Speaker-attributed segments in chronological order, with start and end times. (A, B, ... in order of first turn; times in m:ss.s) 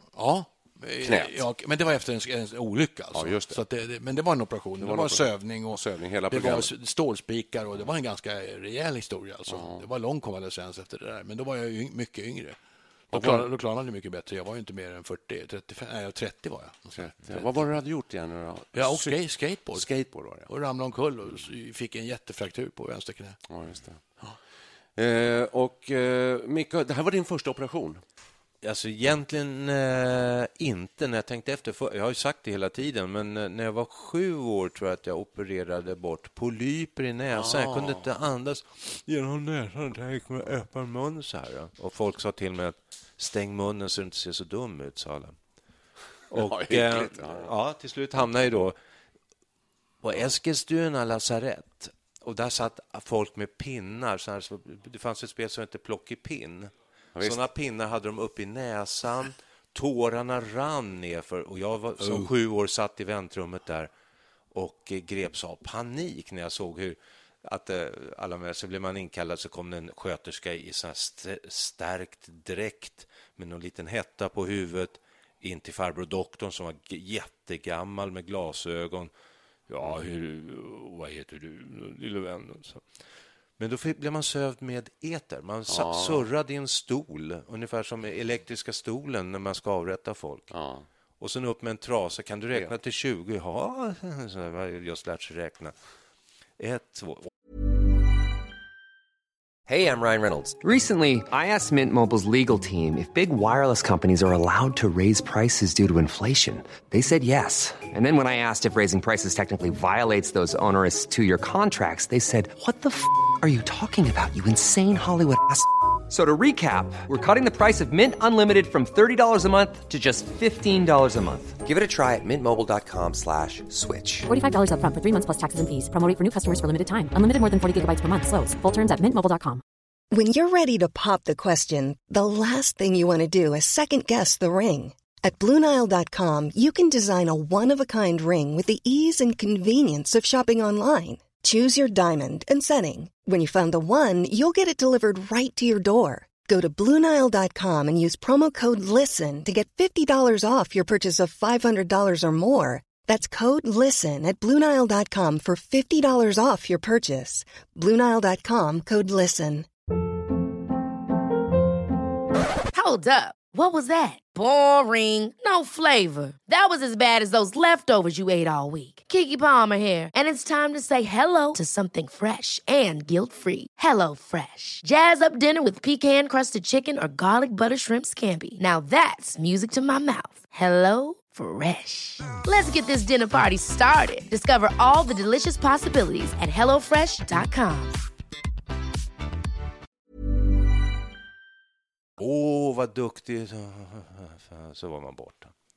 0:00.2-0:12.6 A
0:01.0-0:01.4 B
0:03.1-0:03.6 B
0:04.8-0:06.7 B
0:09.5-0:09.9 B
0:13.1-0:17.6 A
0:13.1-0:13.5 B
0:17.0-0:20.5 B
0:18.7-0:19.9 A
0:20.5-0:23.4 A
0:23.5-0:24.4 B
0:25.0-0:28.0 B
0:28.6-0:45.4 C
0:37.3-0:38.1 B
0:46.3-0:47.5 B
0:46.3-0:48.8 C
0:50.0-1:03.9 C
0:57.2-0:57.4 B
1:02.0-1:02.3 A
1:04.5-1:19.1 C
1:19.7-1:22.8 C
1:23.6-1:30.5 C
1:25.7-1:26.3 B
1:30.5-1:30.9 B
1:31.2-1:35.7 C
1:36.6-1:37.3 C
1:39.7-2:04.3 D
2:04.3-2:09.6 E
2:10.1-2:39.7 F
2:42.7-3:08.0 G
3:12.2-3:15.5 C